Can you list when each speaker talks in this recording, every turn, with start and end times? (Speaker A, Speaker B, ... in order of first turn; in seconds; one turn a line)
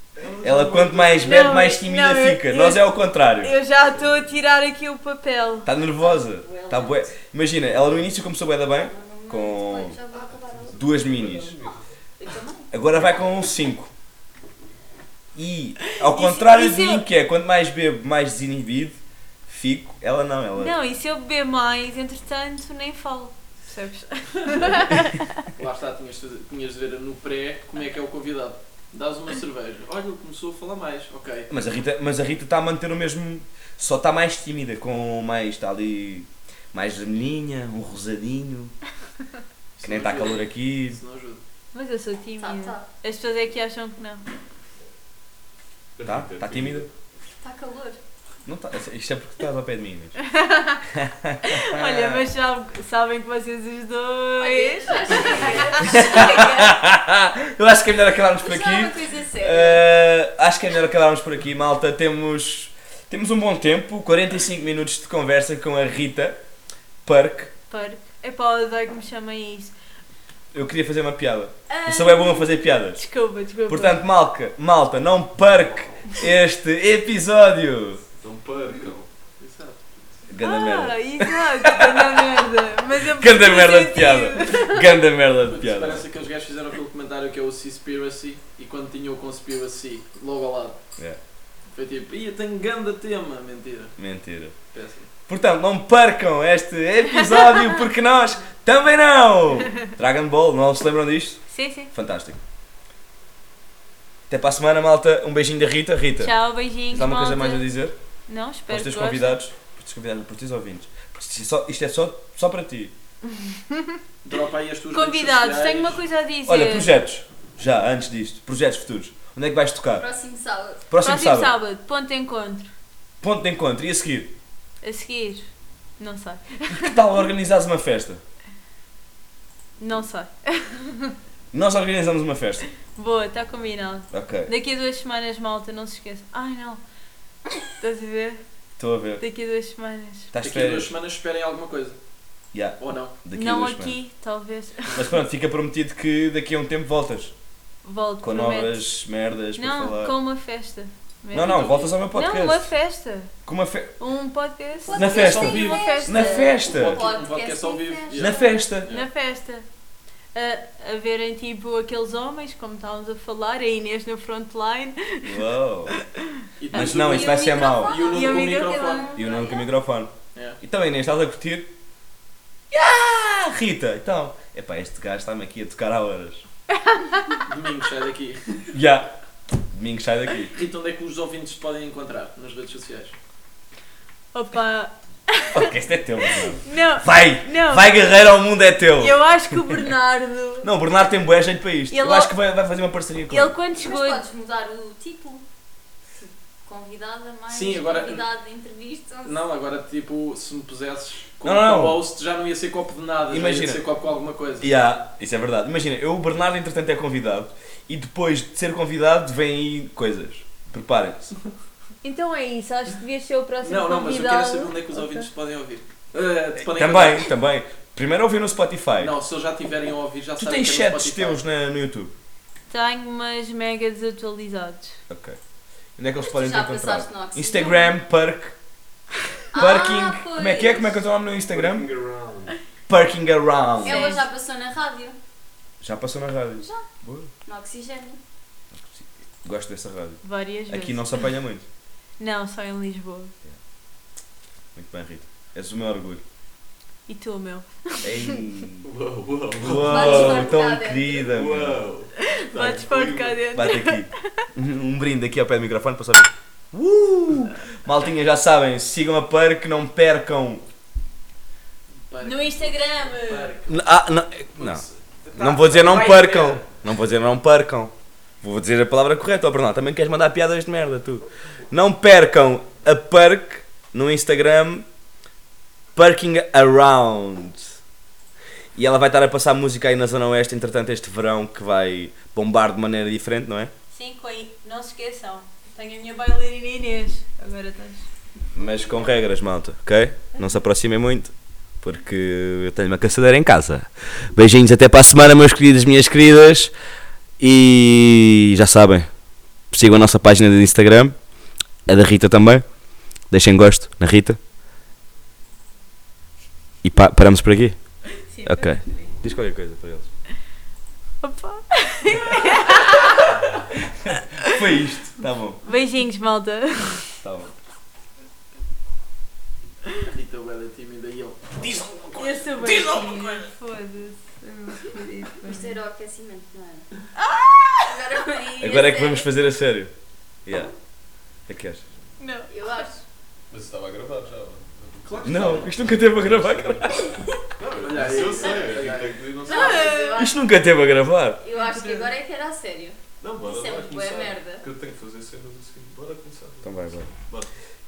Speaker A: 0.1-1.5
Speaker B: 0.4-3.5
Speaker C: 1.1-5.7
Speaker A: 3.8-4.2
Speaker B: 5.6-10.0
Speaker D: 6.0-7.1
Speaker D: 8.7-10.8
Speaker A: 10.1-11.8
Speaker B: 10.8-11.5
Speaker D: 12.2-12.7
Speaker B: 12.7-13.9
Speaker B: 15.3-20.7
Speaker C: 15.9-17.0
Speaker C: 20.6-25.4
Speaker E: 25.6-31.5
Speaker B: 31.5-38.7
Speaker E: 39.8-41.4
Speaker B: 39.8-41.0
Speaker C: 41.7-44.2
Speaker D: 42.4-42.9
Speaker A: 46.0-46.9
Speaker B: 46.0-46.9
Speaker D: 47.4-48.0
Speaker B: 48.5-50.2
Speaker C: 50.2-50.8
Speaker B: 50.8-52.2
Speaker C: 51.4-56.2
Speaker D: 54.4-56.7
Speaker B: 55.8-66.4
Speaker D: 58.4-59.9
Speaker B: 67.0-67.5
Speaker C: 67.7-69.7
Speaker B: 70.5-73.0
Speaker D: 71.7-72.7
Speaker C: 73.0-74.0
Speaker B: 73.7-78.0
Speaker A: 78.2-79.1
Speaker E: 79.4-79.8
Speaker B: 80.3-82.2
Speaker C: 80.4-84.9
Speaker B: 83.0-86.0
Speaker E: 85.4-90.8
Speaker E: 91.7-93.9
Speaker B: 94.0-94.5
Speaker E: 94.7-95.1
Speaker B: 95.3-102.4
Speaker C: 101.5-101.9
Speaker B: 104.3-106.3
Speaker C: 106.2-107.7
Speaker B: 106.9-107.9
Speaker C: 108.3-109.3
Speaker B: 108.7-112.9
Speaker C: 113.2-114.0
Speaker E: 114.2-116.0
Speaker C: 114.9-117.0
Speaker B: 116.5-120.0
Speaker D: 120.0-120.8
Speaker B: 120.9-121.5
Speaker C: 121.0-122.7
Speaker B: 123.2-124.3
Speaker C: 124.8-127.0
Speaker B: 126.7-128.2
Speaker C: 129.8-131.1
Speaker B: 131.5-132.7
Speaker C: 132.9-136.8
Speaker B: 134.1-134.5
Speaker C: 137.8-138.4
Speaker B: 138.8-139.2
Speaker C: 139.2-140.3
Speaker B: 140.3-140.9
Speaker E: 140.4-142.0
Speaker B: 142.5-144.0
Speaker E: 142.8-143.1
Speaker C: 143.3-145.1
Speaker B: 144.9-147.3
Speaker C: 147.8-148.8
Speaker B: 148.2-150.2
Speaker C: 149.6-153.3
Speaker B: 151.3-152.7
Speaker E: 151.4-151.9
Speaker B: 153.4-153.9
Speaker C: 154.0-156.5
Speaker D: 154.8-158.6
Speaker B: 154.9-157.1
Speaker E: 155.0-156.0
Speaker E: 156.5-159.1
Speaker B: 158.2-158.9
Speaker C: 158.9-159.6
Speaker C: 160.3-169.2
Speaker B: 165.2-165.9
Speaker E: 166.6-169.2
Speaker B: 166.7-168.0
Speaker D: 167.0-169.7
Speaker B: 169.1-171.7
Speaker B: 172.7-176.4
Speaker C: 176.7-177.4
Speaker E: 177.4-178.7
Speaker B: 178.7-180.5
Speaker E: 180.5-183.1
Speaker C: 184.3-185.7
Speaker B: 185.5-189.8
Speaker C: 186.6-187.9
Speaker C: 189.0-190.7
Speaker B: 190.6-193.5
Speaker C: 191.9-192.3
Speaker C: 193.3-194.2
Speaker D: 193.8-195.4
Speaker D: 196.2-199.3
Speaker E: 197.5-198.2
Speaker E: 199.2-204.7
Speaker B: 201.4-202.0
Speaker B: 203.3-203.8
Speaker B: 204.6-211.3
Speaker C: 212.0-215.3
Speaker E: 213.6-217.3
Speaker B: 216.6-219.1
Speaker E: 219.0-221.4
Speaker B: 220.4-222.1
Speaker C: 222.7-225.0
Speaker B: 225.1-225.4
Speaker B: 226.0-228.6
Speaker D: 226.2-227.9
Speaker D: 229.5-231.1
Speaker B: 229.5-231.9
Speaker A: 231.5-232.5
Speaker B: 232.9-234.2
Speaker D: 233.8-235.2
Speaker C: 233.8-234.2
Speaker B: 235.8-237.3
Speaker D: 237.4-238.2
Speaker B: 238.7-241.7
Speaker C: 240.2-241.2
Speaker C: 242.2-243.3
Speaker B: 244.7-246.2
Speaker C: 247.1-248.5
Speaker B: 248.0-248.9
Speaker A: 248.8-250.6
Speaker B: 249.6-251.8
Speaker D: 249.8-251.2
Speaker A: 251.2-253.5
Speaker C: 252.2-254.4
Speaker B: 253.5-260.6
Speaker E: 262.1-263.8
Speaker C: 262.2-263.5
Speaker B: 263.7-274.9
Speaker E: 264.6-266.7
Speaker B: 275.9-277.7
Speaker B: 278.7-283.7
Speaker C: 283.9-288.1
Speaker B: 288.5-296.7
Speaker B: 297.4-299.1
Speaker B: 299.7-301.2
Speaker B: 301.9-302.6
Speaker B: 303.3-304.4
Speaker B: 306.8-307.8
Speaker C: 308.2-309.1
Speaker B: 308.4-310.1
Speaker C: 311.2-313.4
Speaker B: 314.4-315.6
Speaker C: 315.6-317.1
Speaker B: 317.2-317.5
Speaker E: 320.0-323.5
Speaker C: 322.1-325.8
Speaker D: 325.4-326.9
Speaker C: 327.2-327.8
Speaker D: 327.8-329.3
Speaker B: 328.6-329.9
Speaker B: 330.4-330.7
Speaker B: 331.5-331.8
Speaker C: 332.2-332.5
Speaker D: 332.5-333.0
Speaker A: 333.5-340.0
Speaker E: 335.0-335.7
Speaker B: 335.2-337.1
Speaker E: 337.8-339.2
Speaker D: 338.3-338.6
Speaker D: 339.4-340.4
Speaker C: 339.4-340.3
Speaker B: 340.1-341.4
Speaker D: 341.4-344.6
Speaker C: 341.6-342.1
Speaker A: 343.2-347.5
Speaker B: 346.6-347.1